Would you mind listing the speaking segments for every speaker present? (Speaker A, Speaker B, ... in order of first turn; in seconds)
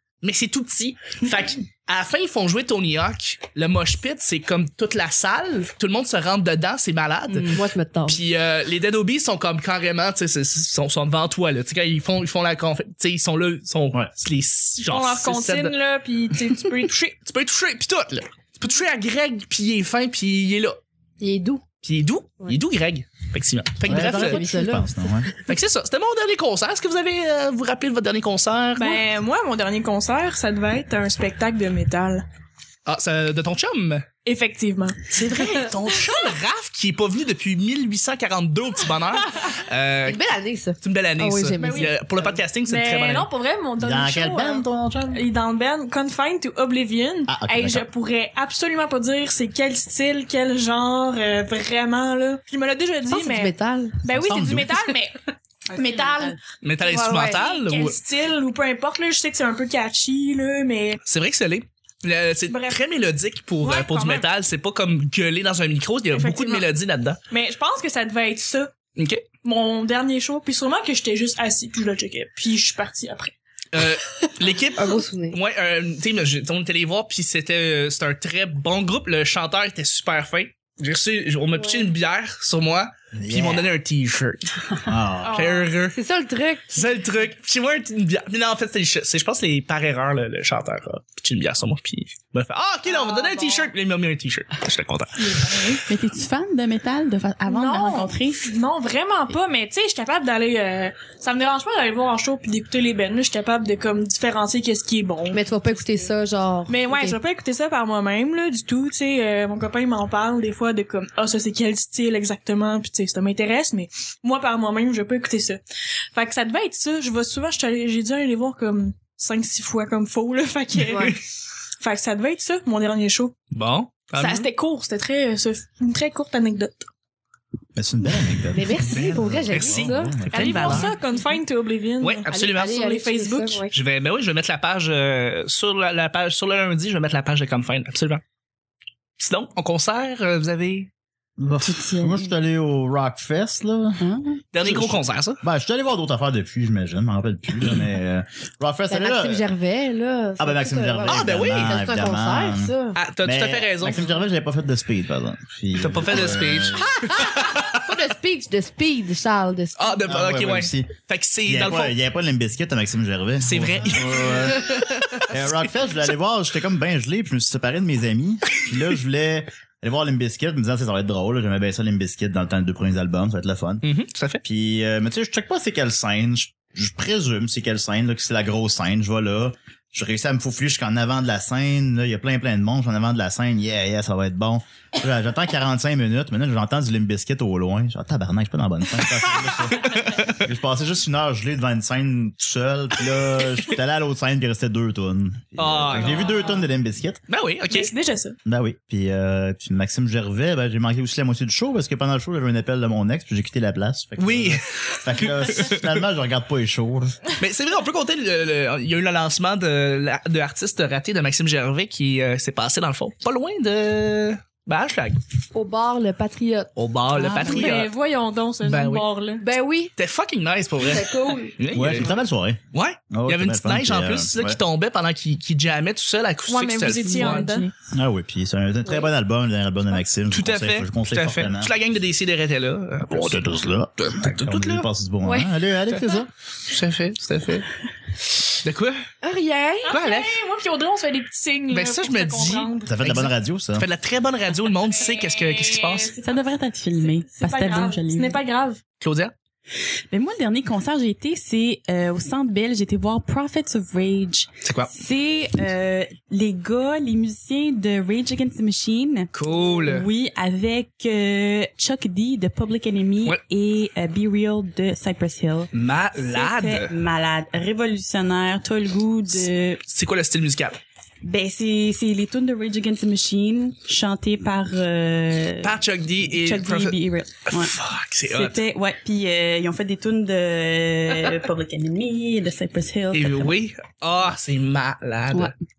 Speaker A: 0.2-15.7, 17.2-20.8, 21.8-24.5, 25.4-29.0, 32.9-34.0, 35.1-40.2, 40.8-43.3, 56.6-58.0, 61.0-67.2, 69.0-69.2, 73.7-84.5, 85.3-86.0, 86.7-95.8, 123.5-124.5, 128.9-131.0, 132.0-132.8, 133.7-138.2, 139.2-140.9, 144.5-145.4, 151.0-151.8, 152.9-154.0, 155.7-157.7, 159.8-161.9, 163.4-165.6, 173.8-174.4, 189.8-190.3, 195.6-196.4, 197.3-197.9, 204.2-205.9, 207.4-215.2, 216.8-217.9, 218.6-219.0, 220.0-222.1, 222.7-227.6, 230.3-233.4, 234.0-234.8, 236.7-237.7, 238.4-239.0, 239.9-240.3, 241.7-246.2, 249.0-249.3, 254.6-254.9, 259.3-260.1, 265.7-266.9, 269.3-270.8, 275.6-278.6, 283.1-285.5
Speaker B: 7.5-8.2, 21.2-21.6, 23.8-24.9, 40.0-41.9, 53.1-54.0, 74.8-75.4, 81.5-81.9, 85.9-86.7, 105.3-107.2, 128.5-130.2, 132.3-133.7, 148.9-153.0, 156.9-160.1, 215.5-216.7, 219.4-219.9, 220.8-221.9, 228.8-229.1, 235.2-235.5, 239.2-239.9
Speaker C: 14.8-17.2, 28.8-32.2, 34.2-35.1, 41.6-42.0, 42.6-55.2, 55.7-61.0, 62.5-62.8, 63.6-64.3, 66.1-66.7, 67.3-68.7, 69.4-73.3, 85.2-85.7, 92.8-93.7, 95.2-95.8, 97.5-106.1, 106.7-115.6, 116.1-121.2, 121.8-123.3, 124.1-126.9, 130.3-133.7, 197.7-198.3, 217.3-219.5, 226.5-227.7, 239.8-243.0, 244.8-248.8
Speaker D: 23.8-25.3, 43.8-45.2, 47.3-47.9, 54.0-54.8, 83.1-83.7, 84.8-85.5, 127.8-130.9, 141.4-144.0, 144.6-149.4, 150.4-156.9, 160.1-160.9, 161.5-173.8, 174.4-197.2, 198.4-207.2, 221.7-222.6, 223.1-224.6, 227.9-231.7, 233.1-236.3, 242.8-243.9
Speaker E: 55.7-56.4, 95.9-98.5, 141.6-142.3, 144.0-144.4, 217.1-217.7, 227.0-227.7, 246.2-248.4, 250.1-269.8, 271.2-277.7, 278.3-283.6